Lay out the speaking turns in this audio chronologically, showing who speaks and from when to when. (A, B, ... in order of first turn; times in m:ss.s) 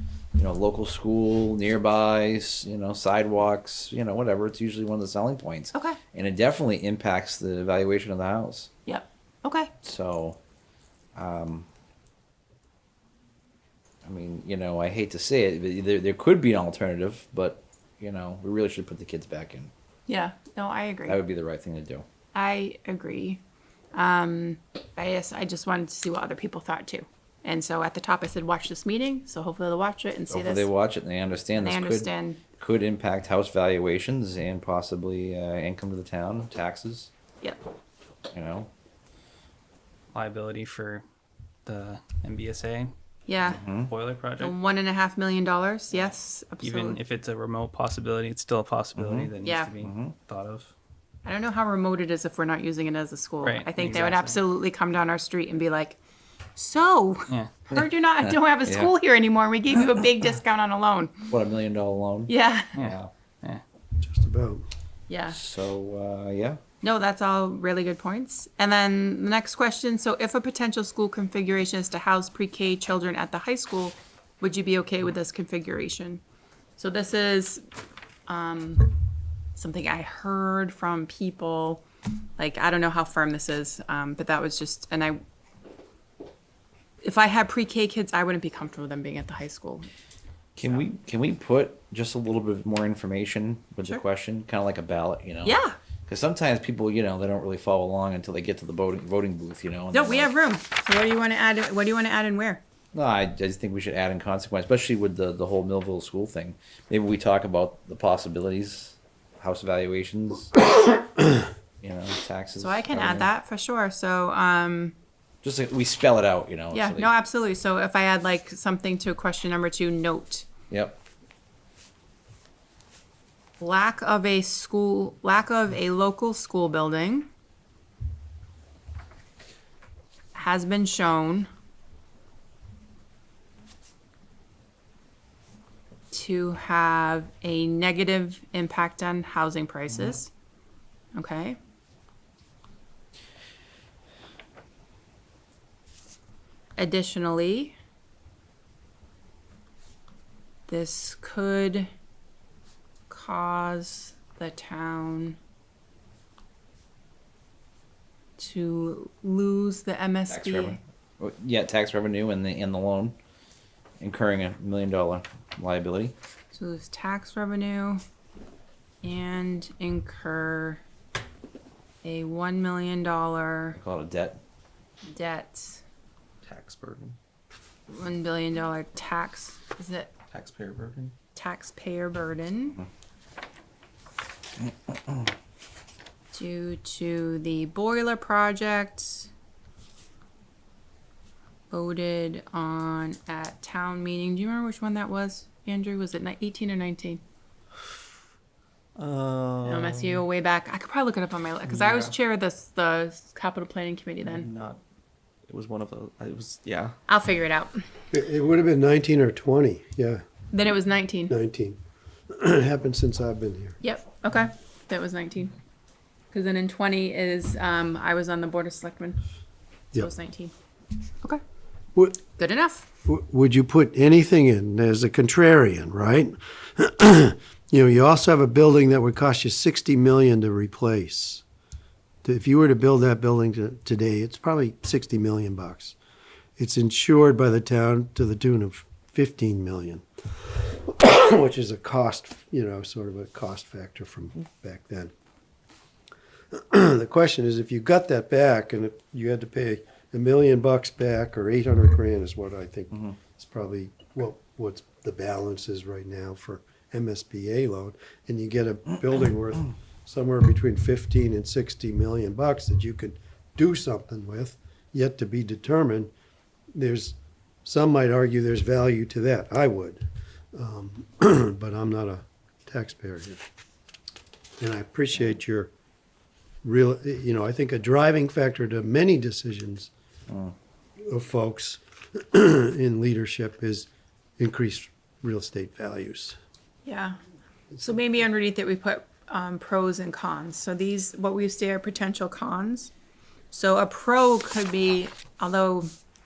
0:00.3-0:08.7 A
0:05.7-0:06.0 B
0:08.9-0:09.7 B
0:09.8-0:10.4 A
0:11.1-0:11.7 A
0:14.0-0:19.7 A
0:20.1-0:21.2 B
0:21.1-0:22.0 A
0:22.3-0:23.4 B
0:23.9-0:30.7 B
0:30.3-0:37.1 A
0:31.6-0:32.4 B
0:38.3-0:38.7 A
0:40.1-0:41.0 C
0:41.7-0:42.9 C
0:43.3-0:43.6 B
0:43.4-0:43.9 A
0:43.8-0:44.5 C
0:44.4-0:47.0 B
0:46.6-0:50.7 C
0:49.0-0:50.1 A
0:49.4-0:49.8 B
0:51.2-0:56.0 B
0:53.4-0:54.4 C
0:56.6-1:01.3 B
0:57.3-0:57.6 C
0:58.2-0:58.9 A
1:01.3-1:03.1 A
1:02.3-1:02.8 B
1:02.8-1:03.6 C
1:04.0-1:04.6 D
1:05.1-1:05.4 B
1:05.3-1:06.6 A
1:06.8-1:16.2 B
1:16.8-1:17.6 B
1:18.3-1:19.0 B
1:19.6-1:21.8 B
1:22.4-1:25.2 B
1:27.0-1:29.9 B
1:30.6-1:40.3 A
1:35.4-1:35.7 B
1:39.9-1:42.6 B
1:42.9-1:50.5 A
1:51.8-1:53.3 A
1:52.6-1:54.9 B
1:55.4-1:57.1 A
1:56.7-2:00.5 B
2:00.7-2:01.0 A
2:03.6-2:07.3 B
2:10.3-2:11.5 B
2:16.1-2:20.3 B
2:21.1-2:21.6 B
2:26.8-2:27.7 B
2:30.7-2:31.9 B
2:33.1-2:35.4 B
2:38.4-2:40.8 B
2:40.3-2:43.2 A
2:44.0-2:46.1 A
2:46.5-2:48.0 B
2:49.0-2:50.8 B
2:52.0-2:53.8 B
2:53.8-2:54.4 A
2:55.0-2:55.8 B
2:56.4-2:57.2 E
2:57.9-3:00.1 B
3:00.3-3:01.1 E
3:01.3-3:02.8 B
3:06.3-3:09.3 B
3:11.7-3:17.2 B
3:19.0-3:20.2 E
3:19.6-3:24.5 B
3:21.6-3:22.1 E
3:24.2-3:24.8 E
3:25.5-3:26.9 E
3:27.1-3:27.8 B
3:28.1-3:30.2 D
3:30.5-3:31.3 B
3:31.3-3:31.8 D
3:32.3-3:33.8 D
3:33.8-3:35.6 B
3:36.3-3:39.2 B
3:39.9-3:40.5 B
3:42.4-3:42.8 B
3:43.0-3:51.4 D
3:52.2-3:56.0 D
3:56.6-4:00.0 D
4:00.7-4:05.1 D
4:06.5-4:26.1 D
4:26.7-4:33.4 D
4:34.6-4:35.7 D
4:36.6-4:39.9 D
4:40.3-4:40.5 A
4:41.1-4:43.9 D
4:44.4-4:46.4 D
4:46.8-4:47.2 B
4:47.8-4:52.9 B
4:53.5-4:55.9 B